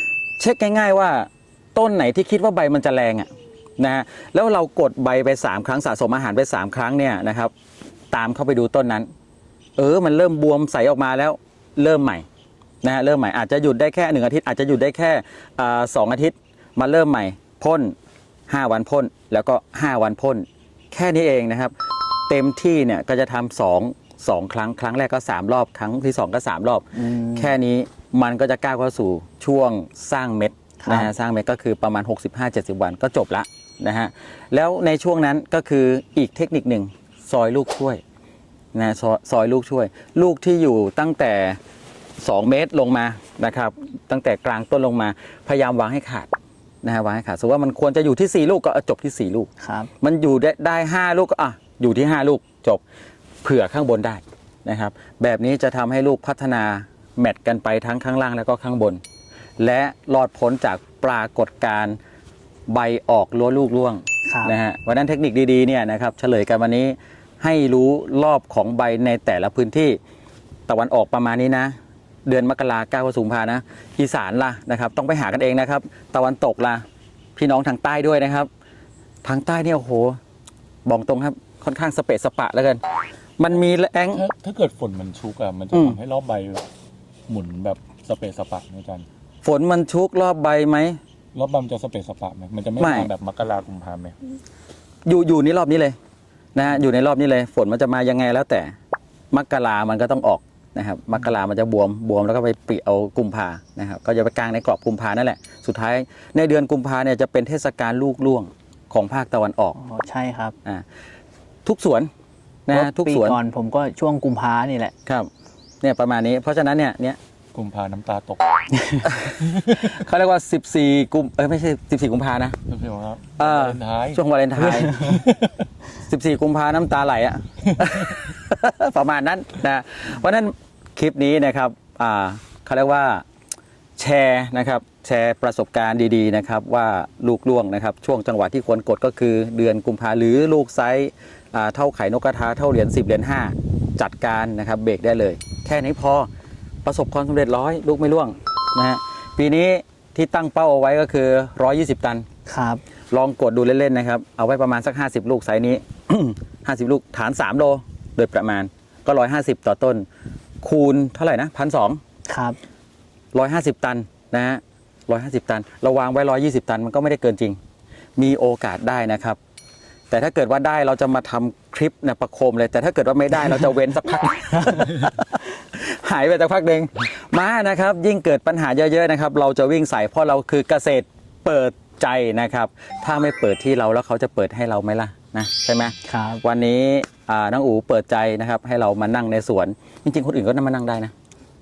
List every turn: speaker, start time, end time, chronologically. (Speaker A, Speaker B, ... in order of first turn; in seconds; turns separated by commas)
Speaker A: 0.4-7.5, Speaker A: 8.1-9.1, Speaker A: 9.8-12.2, Speaker A: 12.8-17.9, Speaker A: 18.5-21.7, Speaker A: 22.3-38.0, Speaker B: 27.0-27.5, Speaker B: 30.8-31.1, Speaker A: 38.7-41.6, Speaker A: 42.2-46.3, Speaker A: 46.8-49.5, Speaker B: 49.6-49.9, Speaker A: 50.0-52.8, Speaker A: 53.4-59.0, Speaker A: 59.6-62.0, Speaker A: 62.7-70.0, Speaker B: 64.3-64.6, Speaker A: 70.7-71.8, Speaker A: 72.3-76.8, Speaker A: 77.4-78.5, Speaker A: 79.2-80.2, Speaker A: 80.9-82.8, Speaker A: 83.4-84.3, Speaker C: 84.1-86.7, Speaker A: 85.7-86.0, Speaker C: 87.3-89.1, Speaker A: 89.4-91.0, Speaker C: 91.3-94.2, Speaker A: 92.8-93.1, Speaker A: 95.1-96.0, Speaker A: 96.5-98.7, Speaker A: 99.3-109.8, Speaker B: 109.8-110.6, Speaker A: 111.7-112.1, Speaker A: 112.7-113.4, Speaker B: 112.7-114.9, Speaker A: 115.8-117.2, Speaker C: 117.5-118.4, Speaker A: 118.9-122.6, Speaker C: 122.7-124.2, Speaker A: 123.4-125.0, Speaker B: 124.7-125.2, Speaker C: 124.9-125.5, Speaker A: 126.0-133.2, Speaker A: 134.0-146.3, Speaker A: 146.8-152.2, Speaker B: 152.5-152.8, Speaker A: 153.1-160.1, Speaker A: 160.6-162.0, Speaker B: 162.3-162.6, Speaker A: 163.3-167.6, Speaker A: 168.2-169.4, Speaker A: 170.1-191.1, Speaker B: 186.1-186.4